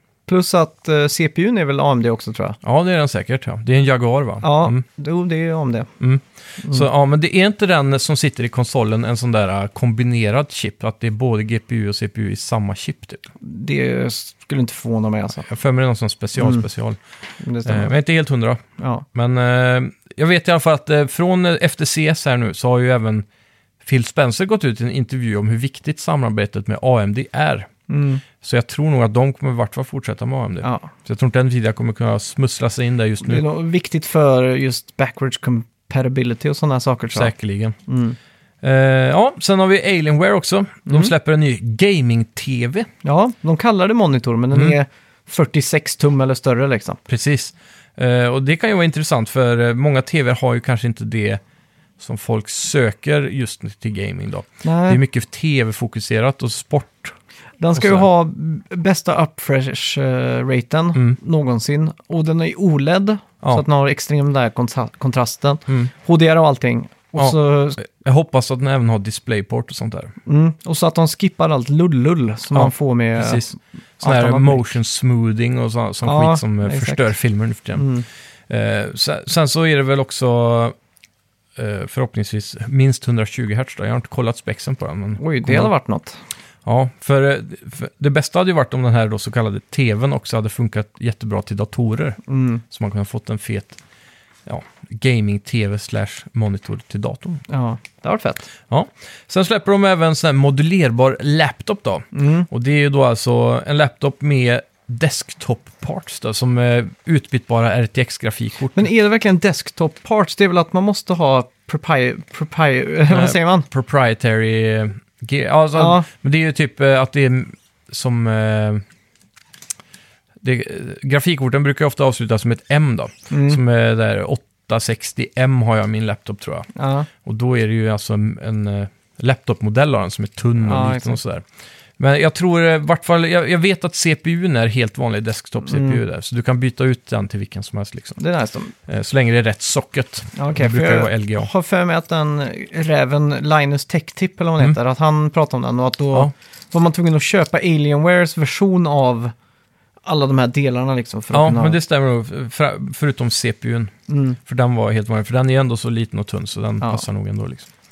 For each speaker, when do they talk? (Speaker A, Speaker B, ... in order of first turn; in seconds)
Speaker A: 0.3-2.6, 4.4-5.9, 6.6-6.9, 13.4-15.5, 16.4-16.6, 17.4-17.9, 18.8-19.1, 27.9-28.2, 30.6-30.9, 33.2-37.3, 37.9-38.2, 40.9-41.1, 43.0-47.0, 54.6-55.0, 57.6-67.8, 70.3-74.7, 76.0-77.1, 77.8-78.1, 85.2-86.2, 92.3-92.6, 97.5-98.5, 102.1-102.5, 108.7-113.7, 115.8-116.1, 123.3-123.6, 126.8-127.1, 130.6-131.2, 135.7-136.0, 138.2-138.7, 140.3-149.3, 150.0-151.8, 154.1-154.4
Speaker B: 2.6-4.8, 6.0-13.2, 15.4-17.0, 17.6-18.6, 19.1-23.3, 23.8-27.7, 28.4-33.4, 37.1-37.8, 38.6-42.9, 47.1-51.4, 52.0-57.2, 57.8-58.1, 67.2-70.1, 72.5-77.9, 78.5-80.8, 81.6-85.7, 86.7-93.8, 94.5-97.4, 98.7-108.9, 113.1-118.8, 120.4-126.7, 127.2-131.4, 132.0-138.2, 138.9-141.5, 151.3-153.9, 154.4-157.7